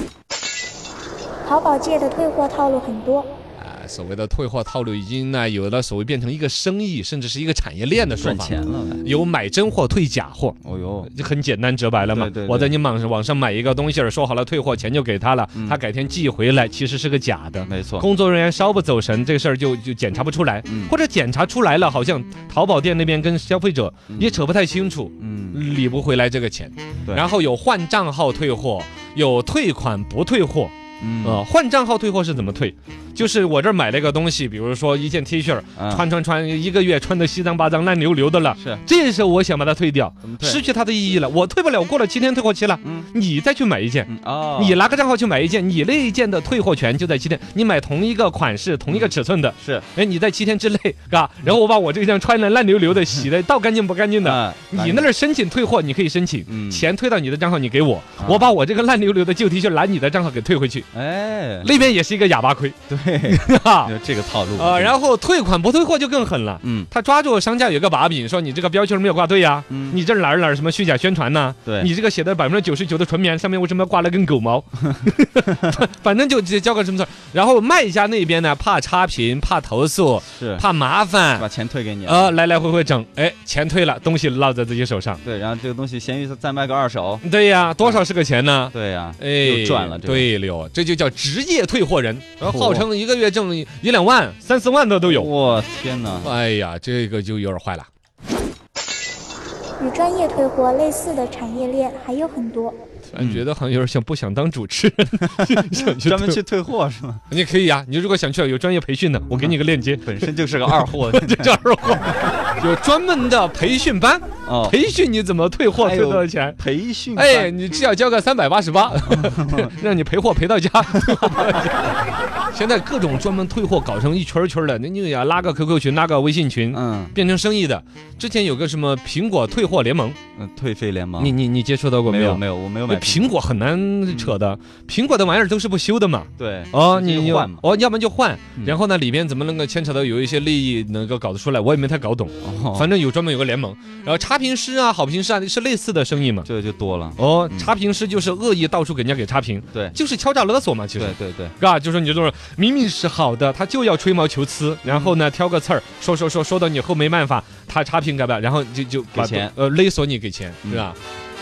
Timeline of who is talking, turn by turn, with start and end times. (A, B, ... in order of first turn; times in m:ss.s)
0:01.4-0:03.4 A
0:03.6-0:10.6 B
0:08.2-0:09.1 C
0:10.6-0:11.1 C
0:11.1-1:00.9 B
0:12.1-0:12.8 C
0:17.7-0:18.1 C
0:20.7-0:20.9 C
0:24.1-0:24.4 C
0:25.2-0:25.6 C
0:31.0-0:31.4 C
0:35.8-0:36.1 C
0:38.6-0:38.8 C
0:40.2-0:40.6 C
0:42.8-0:43.1 C
0:44.1-0:44.8 C
0:48.9-0:49.9 C
0:54.2-0:55.1 C
0:56.5-0:56.9 C
0:58.2-0:58.5 C
1:00.9-1:01.8 C
1:01.6-1:03.9 B
1:02.9-1:05.0 C
1:04.6-1:21.5 B
1:06.6-1:06.9 C
1:09.7-1:10.0 C
1:11.6-1:11.9 C
1:20.3-1:20.6 C
1:21.4-1:22.3 C
1:22.0-1:25.2 B
1:25.2-1:27.2 C
1:27.2-1:35.3 B
1:28.7-1:30.3 C
1:32.4-1:32.9 C
1:35.1-1:36.3 C
1:36.2-1:37.9 B
1:39.8-1:42.8 A
1:43.1-1:46.4 B
1:43.2-1:43.4 C
1:45.3-1:47.2 C
1:47.3-1:56.6 B
1:49.4-1:51.5 C
1:54.4-1:54.8 C
1:55.7-1:57.5 C
1:57.2-2:10.2 B
1:59.2-1:59.7 C
2:06.7-2:07.2 C
2:10.4-2:11.4 C
2:11.2-2:26.5 B
2:12.1-2:13.4 C
2:14.1-2:14.4 C
2:16.4-2:17.6 C
2:22.4-2:22.9 C
2:26.4-2:27.7 C
2:27.2-2:41.0 B
2:31.0-2:31.6 C
2:34.9-2:35.2 C
2:39.2-2:39.6 C